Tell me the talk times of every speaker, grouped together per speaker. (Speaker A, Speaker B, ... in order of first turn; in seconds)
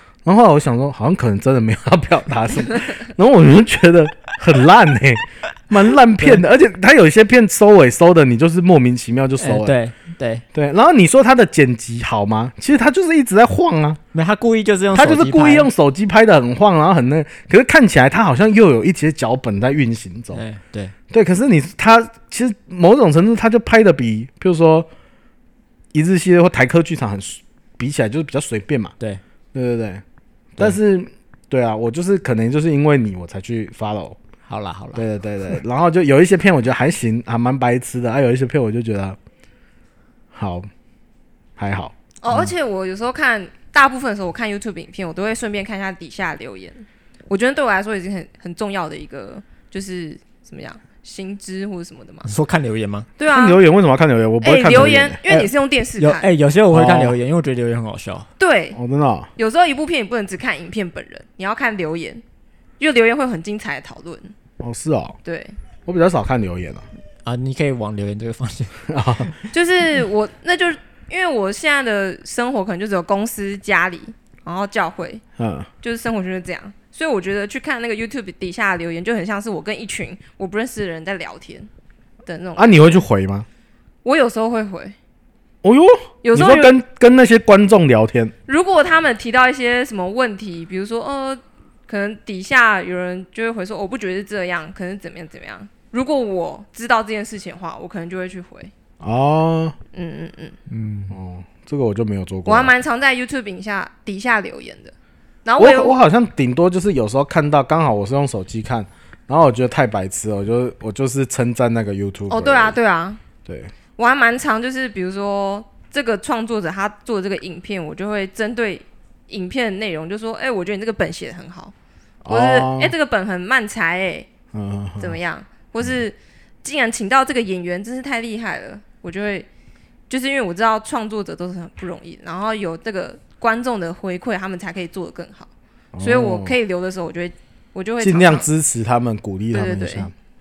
Speaker A: 0.2-9.8, 10.5-14.0, 14.9-20.4, 21.1-24.9, 25.9-28.9, 29.5-30.0, 30.6-34.2, 35.0-39.2, 40.3-40.7, 41.6-41.9, 53.3-55.5, 56.7-57.2, 58.8-59.3, 64.6-65.2, 65.9-66.8, 68.9-69.3, 75.4-75.7, 82.6-83.5, 85.6-88.3, 99.0-99.8, 101.1-102.7, 105.6-112.8, 113.5-113.7, 122.2-122.9, 124.5-125.2, 135.9-136.6, 138.0-140.1
Speaker B: 9.4-10.4, 14.1-15.7, 20.3-20.9, 34.5-35.0, 52.2-53.1, 56.0-58.3, 67.2-69.4, 100.7-101.2
Speaker C: 42.2-52.3, 53.2-53.6, 54.4-56.3, 58.4-58.8, 59.4-62.2, 62.8-64.3, 65.2-65.6, 69.5-75.2, 75.8-81.7, 82.2-82.8, 84.0-85.0, 86.2-86.8, 88.5-98.7, 99.9-100.6, 102.5-104.9, 105.5-106.0, 112.3-113.2, 114.0-121.7, 122.3-124.3, 125.0-129.5, 130.1-138.5, 139.5-140.1